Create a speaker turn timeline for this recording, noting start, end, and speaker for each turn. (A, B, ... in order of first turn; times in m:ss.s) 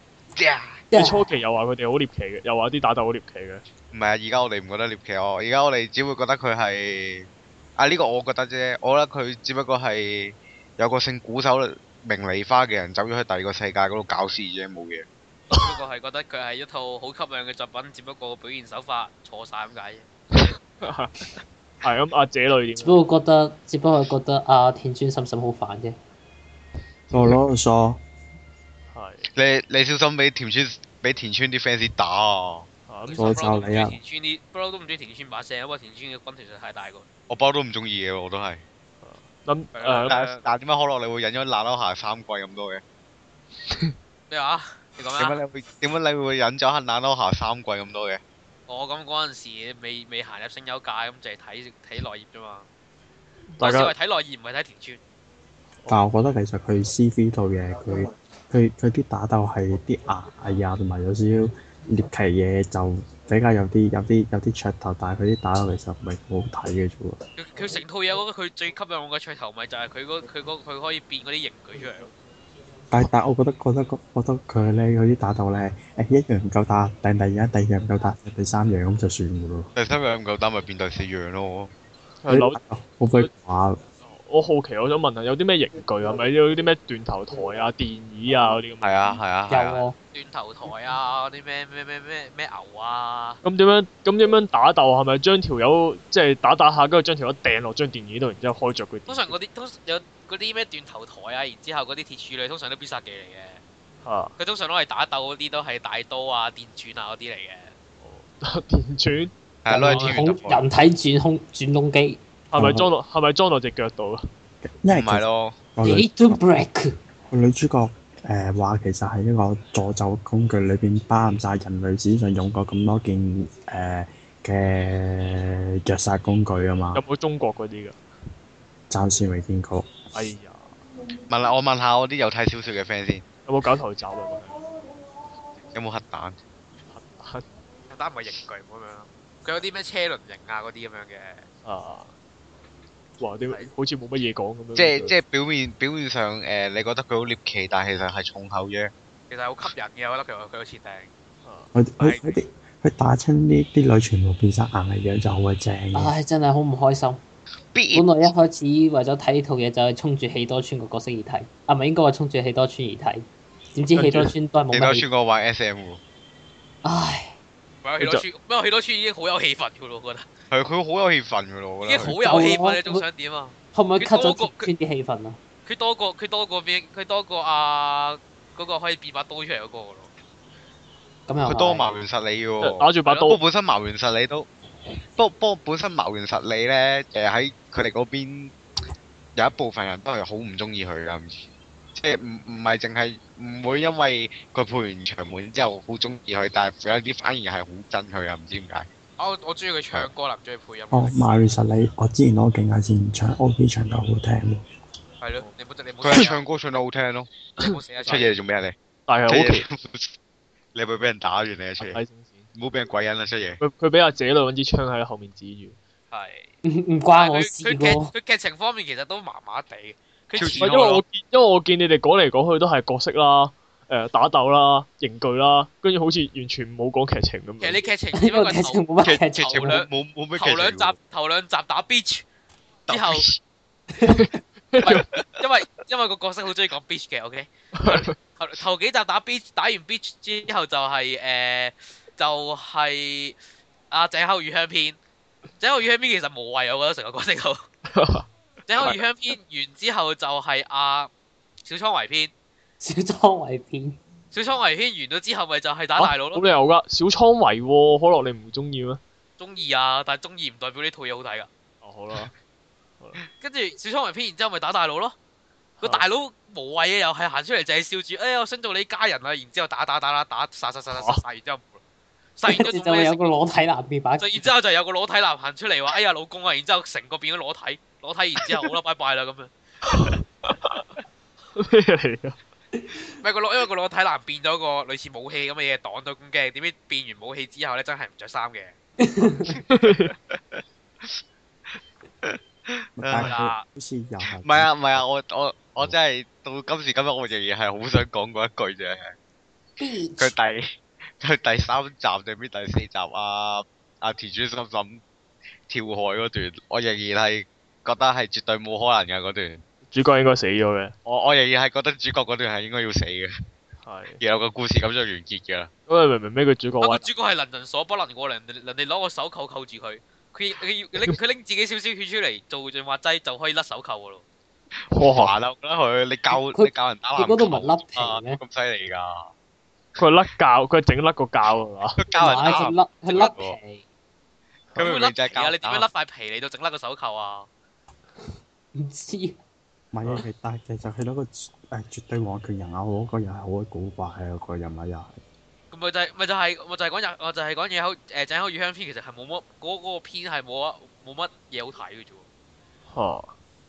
0:00.4-0:00.9 A
0:00.9-0:01.3 B
0:00.9-0:03.6 C
0:03.9-0:15.1 A
0:15.5-0:15.8 C
0:15.5-0:20.1 D
0:20.3-0:23.0 C
0:22.8-0:26.0 B
0:27.1-0:27.4 C
0:27.1-0:28.0 E
0:28.9-0:29.3 C
0:29.3-0:32.7 A
0:32.9-0:33.4 C
0:33.1-0:37.0 D
0:33.2-0:34.0 E
0:37.3-0:38.6 A
0:39.0-0:40.1 C
0:39.8-0:40.4 D
0:40.1-0:42.8 A
0:43.6-0:43.9 C
0:44.3-0:45.4 D
0:45.2-0:48.2 A
0:48.7-0:52.7 D
0:53.5-0:53.9 C
0:53.6-0:55.0 D
0:55.9-1:07.2 E
1:07.4-1:12.1 D
1:12.9-1:19.7 E
1:19.8-1:21.7 A
1:22.2-1:22.6 C
1:22.3-1:23.8 E
1:24.0-1:29.1 C
1:28.8-1:29.8 A
1:29.5-1:30.0 B
1:30.1-1:33.4 D
1:33.4-1:39.3 C
1:39.1-1:43.6 D
1:44.0-1:44.4 C
1:44.4-1:47.7 D
1:48.0-1:49.3 C
1:49.6-1:50.6 A
1:49.7-1:52.2 B
1:49.9-1:50.3 D
1:52.5-1:54.3 C
1:52.6-1:52.9 E
1:54.6-1:55.2 E
1:54.9-1:55.6 A
1:55.8-1:56.3 E
1:55.8-1:57.0 B
1:57.3-2:07.0 E
2:06.9-2:08.0 C
2:08.9-2:09.9 E
2:10.1-2:10.8 C
2:11.3-2:13.3 A
2:13.5-2:14.6 C
2:15.7-2:16.4 A
2:16.9-2:17.4 C
2:17.9-2:21.5 D
2:21.6-2:22.1 C
2:23.2-2:25.1 C
2:24.8-2:28.9 A
2:29.3-2:31.1 D
2:31.4-2:31.7 C
2:31.8-2:36.1 E
2:32.0-2:32.3 D
2:35.9-2:37.2 B
2:37.7-2:38.3 A
2:37.9-2:45.0 B
2:44.0-2:44.3 C
2:44.7-2:46.0 A
2:46.8-2:47.4 B
2:47.8-2:50.3 D
2:48.0-2:48.3 C
2:50.5-2:52.2 A
2:51.8-2:54.7 D
2:52.2-2:53.1 B
2:53.7-2:55.4 B
2:55.7-3:00.1 D
3:01.3-3:01.9 B
3:01.4-3:04.5 A
3:02.6-3:03.4 C
3:03.1-3:03.3 D
3:05.2-3:08.5 A
3:09.4-3:18.9 A
3:19.2-3:21.2 D
3:20.9-3:24.6 E
3:25.2-3:26.4 D
3:26.0-3:27.3 A
3:27.6-3:28.3 D
3:28.0-3:30.1 A
3:29.1-3:29.7 C
3:30.8-3:32.0 A
3:31.8-3:32.5 C
3:32.5-3:33.6 A
3:33.6-3:35.8 C
3:36.1-3:36.5 D
3:36.6-3:38.1 B
3:37.2-3:41.0 D
3:40.4-3:41.0 A
3:40.4-3:47.8 C
3:47.6-3:48.9 D
3:48.2-3:49.8 B
3:49.0-3:51.0 A
3:49.5-3:52.2 D
3:52.9-3:53.4 A
3:52.9-3:53.3 D
3:54.0-3:54.4 B
3:54.0-3:55.1 C
3:54.8-4:03.4 D
3:54.8-3:55.2 A
3:57.8-3:58.2 C
4:03.9-4:05.0 D
4:05.6-4:07.6 D
4:07.9-4:09.0 C
4:08.7-4:11.1 D
4:11.6-4:12.3 D
4:12.8-4:14.0 B
4:14.3-4:16.4 D
4:16.0-4:19.0 C
4:19.4-4:21.5 D
4:21.8-4:22.3 C
4:23.4-4:25.2 D
4:25.8-4:31.8 D
4:25.8-4:26.1 C
4:30.9-4:31.2 C
4:32.4-4:33.3 D
4:32.4-4:34.5 B
4:34.2-4:39.5 D
4:39.8-4:40.9 C
4:41.6-4:42.4 C
4:43.2-4:48.8 D
4:49.0-4:49.6 B
4:49.5-4:51.2 A
4:49.7-4:50.1 C
4:52.2-4:53.3 A
4:53.0-4:55.0 E
4:53.2-4:53.6 D
4:54.4-4:59.1 A
4:59.8-5:00.3 B
5:00.2-5:00.6 A
5:01.2-5:05.0 A
5:05.7-5:09.6 A
5:09.9-5:11.0 C
5:11.0-5:13.3 A
5:13.8-5:14.2 C
5:14.2-5:15.7 A
5:15.9-5:17.1 C
5:16.8-5:24.2 D
5:24.9-5:25.4 C
5:25.0-5:29.3 A
5:26.3-5:28.4 B
5:30.0-5:32.0 C
5:32.0-5:33.6 A
5:32.2-5:33.8 B
5:32.4-5:33.3 D
5:34.7-5:35.9 A
5:34.8-5:37.5 D
5:38.8-5:39.4 B
5:39.9-5:45.2 E
5:45.7-5:52.2 D
5:52.9-5:53.3 C